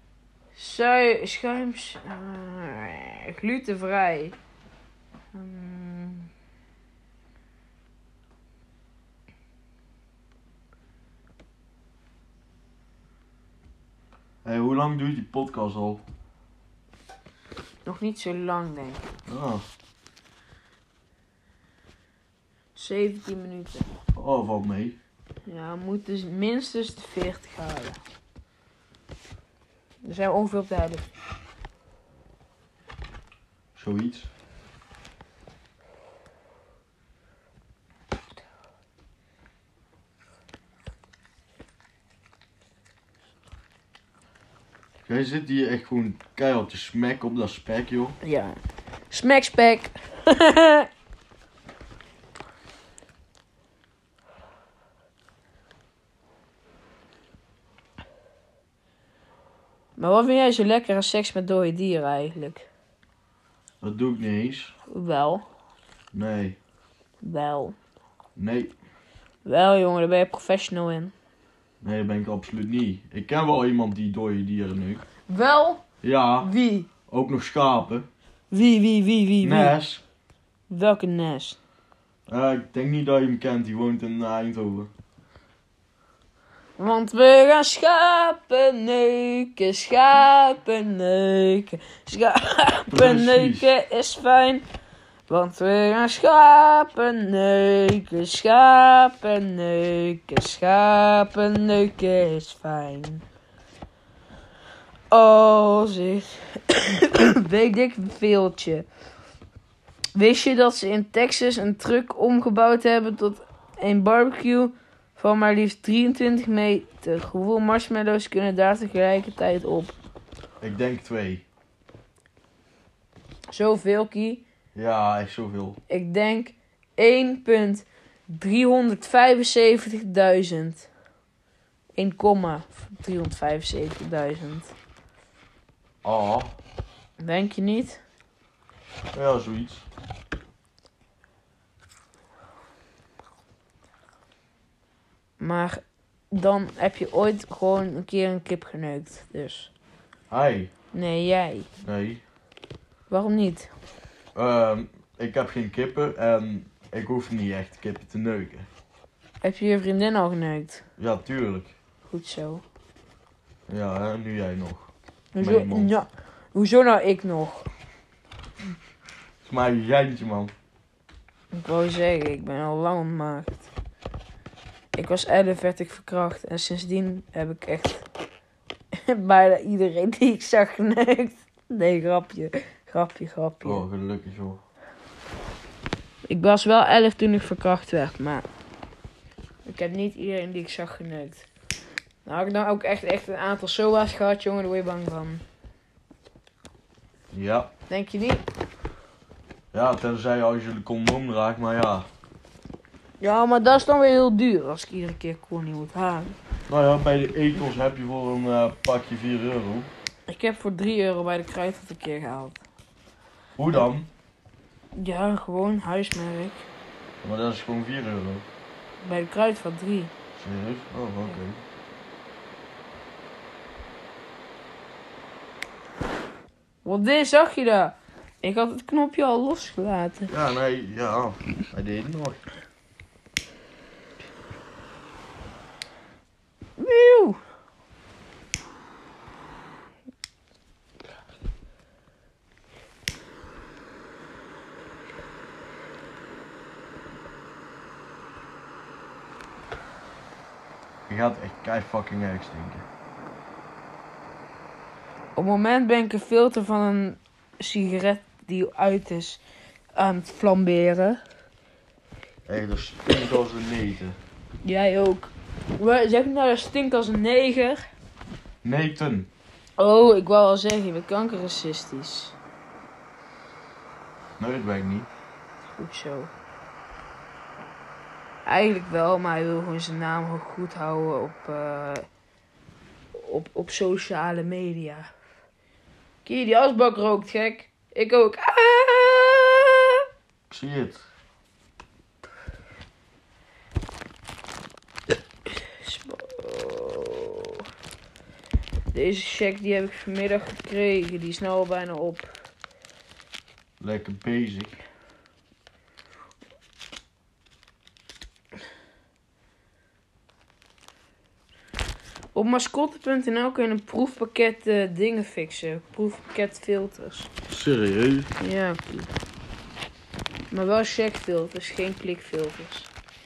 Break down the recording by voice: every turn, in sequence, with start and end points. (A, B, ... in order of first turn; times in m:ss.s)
0:00.6-0:04.4 A
0:05.3-0:06.3 A
0:14.4-0:16.0 B
0:17.8-0:19.0 A
0:19.3-0:19.6 B
0:22.8-0:23.9 A
0:24.1-0:25.0 B
0:25.4-0:28.0 A
0:30.0-0:31.0 A
0:33.7-0:34.3 B
0:45.1-0:48.2 B
0:48.2-0:48.6 A
0:49.1-0:50.9 A
1:00.0-1:02.7 A
1:03.8-1:04.7 B
1:04.9-1:05.4 A
1:06.1-1:06.6 B
1:07.2-1:07.8 A
1:08.4-1:08.7 B
1:09.4-1:11.1 A
1:11.8-1:15.0 B
1:15.3-1:15.8 A
1:16.0-1:16.5 B
1:16.4-1:16.9 A
1:17.0-1:18.1 B
1:18.5-1:19.8 A
1:19.4-1:20.0 B
1:20.7-1:21.6 A
1:22.3-1:24.9 B
1:26.8-1:34.6 A
1:32.9-1:33.7 B
1:35.3-1:43.2 A
1:45.1-1:48.8 A
1:50.1-1:59.9 A
2:00.6-2:01.4 B
2:03.5-2:04.4 A
2:04.7-2:05.8 B
2:05.9-2:10.9 A
2:12.0-2:14.7 A
2:16.0-2:16.5 B
2:17.2-2:18.0 A
2:19.1-2:19.8 B
2:25.4-2:25.8 A
2:26.3-2:29.7 A
2:30.3-2:30.7 B
2:30.9-2:31.7 A
2:31.8-2:32.2 B
2:33.1-2:33.7 A
2:34.3-2:38.7 B
2:39.4-2:40.8 A
2:41.0-2:41.7 B
2:42.1-2:42.6 A
2:43.7-2:45.9 B
2:45.3-2:47.7 A
2:49.4-2:50.5 B
2:51.5-2:53.7 A
2:54.9-2:58.0 A
2:59.0-3:03.8 A
3:03.6-3:04.6 B
3:06.3-3:08.4 A
3:09.6-3:11.4 A
3:12.2-3:15.4 A
3:17.3-3:17.7 B
3:17.9-3:18.4 A
3:19.7-3:22.1 B
3:23.2-3:26.4 A
3:26.7-3:29.9 B
3:30.3-3:32.6 A
3:33.6-3:34.1 B
3:34.9-3:36.6 A
3:37.2-3:38.4 B
3:39.0-3:40.1 A
3:40.4-3:41.6 B
3:46.8-3:50.3 A
3:50.3-3:52.4 B
3:56.8-3:57.4 A
4:11.1-4:12.8 B
4:15.4-4:19.4 A
4:20.0-4:21.2 A
4:22.4-4:24.2 B
4:24.6-4:27.8 A
4:28.6-4:29.3 B
4:29.8-4:32.3 A
4:34.4-4:35.1 B
4:35.7-4:36.3 A
4:38.4-4:42.1 A
4:43.1-4:45.1 A
4:46.2-4:50.0 A
4:50.5-4:51.0 B
4:55.8-4:57.6 A
4:58.9-5:02.3 A
5:03.8-5:04.8 B
5:12.3-5:17.3 A
5:17.5-5:18.3 B
5:18.4-5:19.1 A
5:20.5-5:22.9 A